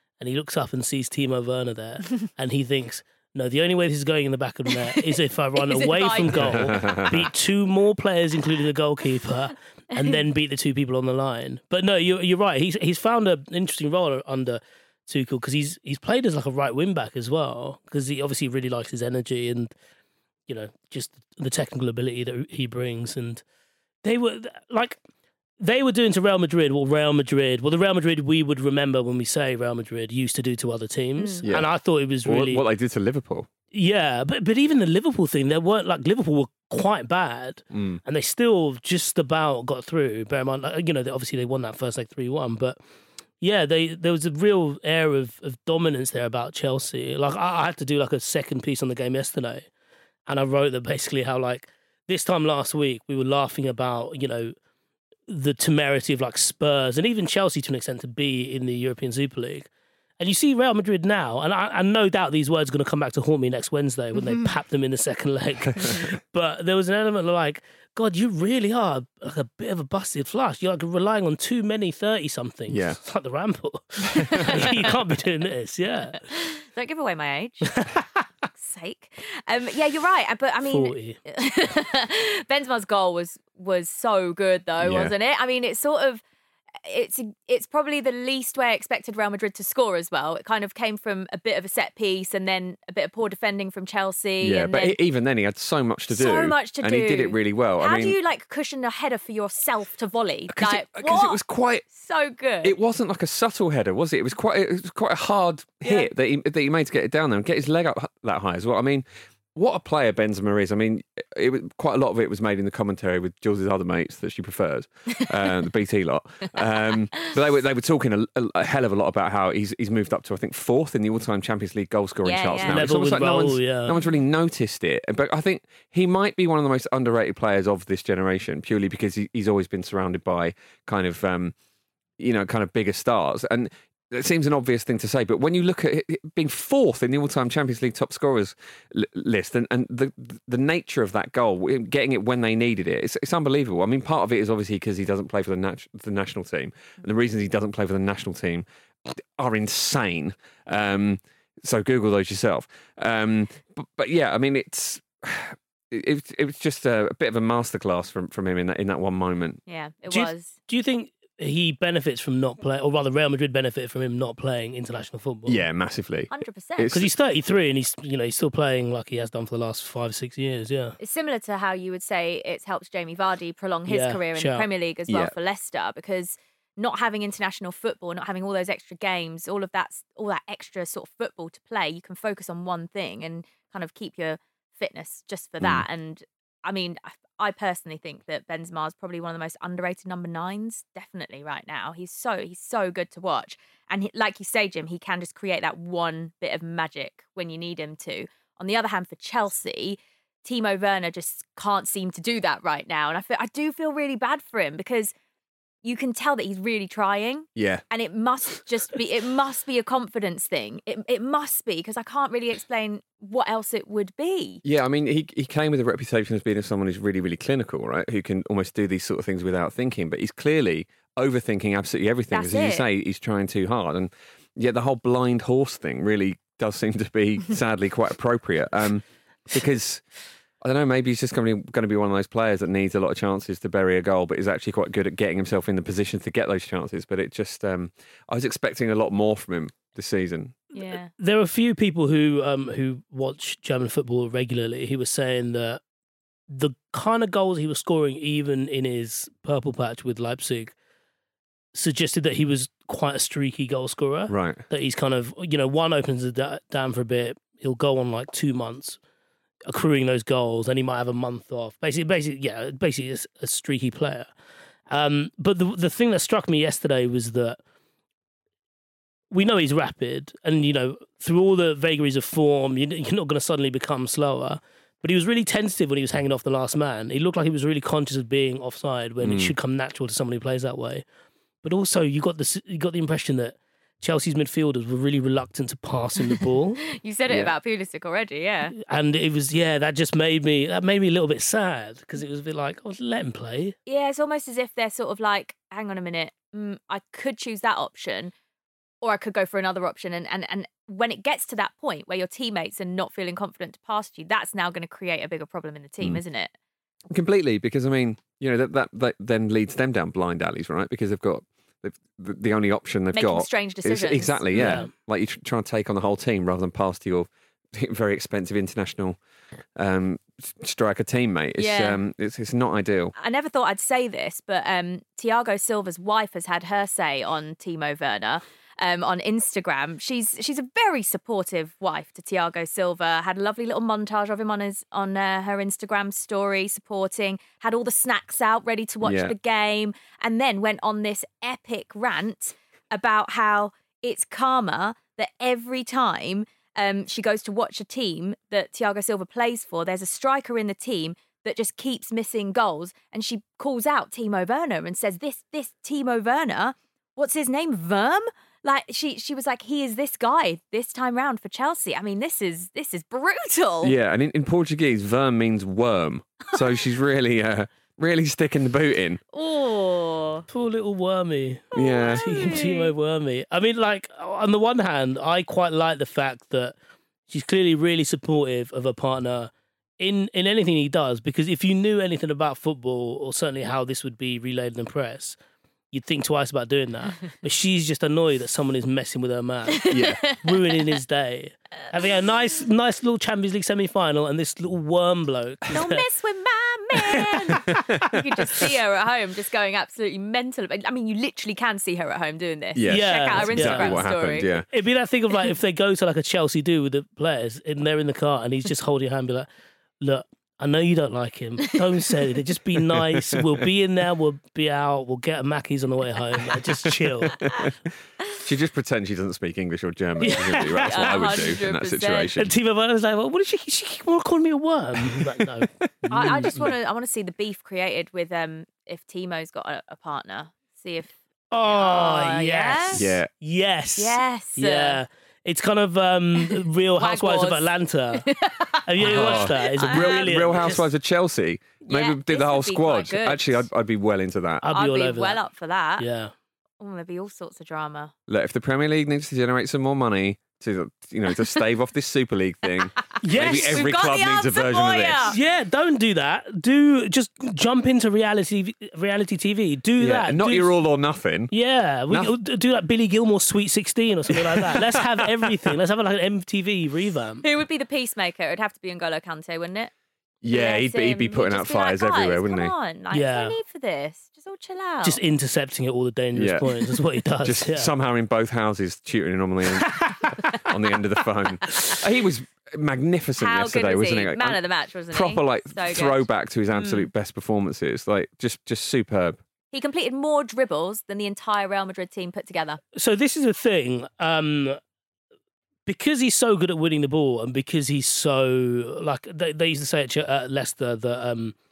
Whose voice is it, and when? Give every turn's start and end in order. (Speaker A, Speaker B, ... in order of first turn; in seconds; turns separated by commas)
Speaker A: 0.2-19.7, Speaker B: 5.6-7.1, Speaker C: 6.4-7.2, Speaker A: 20.5-23.4, Speaker A: 24.0-25.0, Speaker A: 25.6-32.6, Speaker B: 31.2-31.4, Speaker C: 32.2-33.5, Speaker A: 33.7-42.8, Speaker C: 37.7-38.0, Speaker A: 43.4-49.7, Speaker A: 50.3-54.5, Speaker A: 55.3-76.2, Speaker C: 72.7-73.0, Speaker B: 74.1-74.9, Speaker C: 74.3-74.6, Speaker B: 76.2-77.8, Speaker A: 77.7-78.1, Speaker B: 78.5-86.2, Speaker A: 80.6-81.2, Speaker C: 84.8-85.1, Speaker B: 86.8-95.0, Speaker C: 94.4-98.2, Speaker B: 96.1-101.4, Speaker C: 100.5-101.9, Speaker B: 101.9-102.8, Speaker C: 102.6-131.6, Speaker B: 105.8-106.1, Speaker B: 116.9-117.3, Speaker B: 122.2-122.9, Speaker A: 122.7-124.0, Speaker C: 132.2-159.6, Speaker B: 159.7-160.5, Speaker A: 160.1-165.6, Speaker C: 165.5-167.1, Speaker B: 166.3-167.0, Speaker A: 166.9-171.0, Speaker B: 171.0-205.1, Speaker A: 173.9-174.7, Speaker C: 175.1-175.3, Speaker B: 205.8-214.6, Speaker C: 207.6-207.8, Speaker C: 214.6-230.0, Speaker B: 222.3-222.9, Speaker C: 230.6-240.6, Speaker B: 240.7-241.1, Speaker A: 240.9-245.8, Speaker A: 246.5-250.8, Speaker A: 251.7-259.0, Speaker C: 254.3-254.6, Speaker A: 259.7-264.3, Speaker A: 264.9-267.6, Speaker A: 269.3-281.0, Speaker C: 279.2-279.5, Speaker A: 281.6-286.8, Speaker B: 286.8-288.8, Speaker C: 287.3-287.5, Speaker A: 288.8-293.8, Speaker B: 293.9-298.3, Speaker B: 299.0-306.5, Speaker C: 307.1-319.2, Speaker B: 313.1-314.9, Speaker A: 314.5-314.9, Speaker C: 319.8-323.1, Speaker B: 321.6-322.0, Speaker B: 323.2-364.0, Speaker C: 339.0-339.4, Speaker C: 363.8-369.2, Speaker B: 369.3-370.5, Speaker A: 370.5-376.8, Speaker B: 371.7-372.9, Speaker C: 371.8-372.4, Speaker A: 377.3-385.4, Speaker A: 385.9-396.1, Speaker B: 389.8-390.8, Speaker C: 389.9-390.2, Speaker B: 395.7-404.5, Speaker C: 397.1-398.6, Speaker C: 402.8-404.7, Speaker A: 402.9-404.1, Speaker A: 404.7-409.5, Speaker A: 410.0-417.5, Speaker C: 412.9-413.6, Speaker C: 416.9-417.8, Speaker C: 418.4-422.5, Speaker A: 420.2-421.4, Speaker B: 420.8-422.3, Speaker A: 422.4-426.7, Speaker C: 426.0-426.7, Speaker B: 426.1-433.1, Speaker A: 431.5-438.3, Speaker C: 433.0-433.3, Speaker B: 434.0-435.0, Speaker B: 436.4-440.7, Speaker A: 438.9-440.9, Speaker C: 439.0-444.7, Speaker B: 441.9-443.7, Speaker A: 444.6-445.4, Speaker B: 444.7-446.1, Speaker A: 446.0-446.3, Speaker B: 446.8-448.1, Speaker C: 448.3-455.3, Speaker B: 453.2-455.4, Speaker A: 453.2-453.9, Speaker A: 455.3-460.7, Speaker C: 460.0-461.5, Speaker A: 461.5-467.4, Speaker C: 462.1-462.3, Speaker C: 464.6-465.3, Speaker B: 467.4-469.9, Speaker C: 470.4-472.7, Speaker B: 470.5-475.2, Speaker A: 473.1-473.6, Speaker A: 475.0-477.9, Speaker C: 476.3-476.7, Speaker C: 477.4-489.4, Speaker B: 483.4-487.1, Speaker B: 489.7-492.8, Speaker A: 492.9-494.8, Speaker A: 495.9-501.6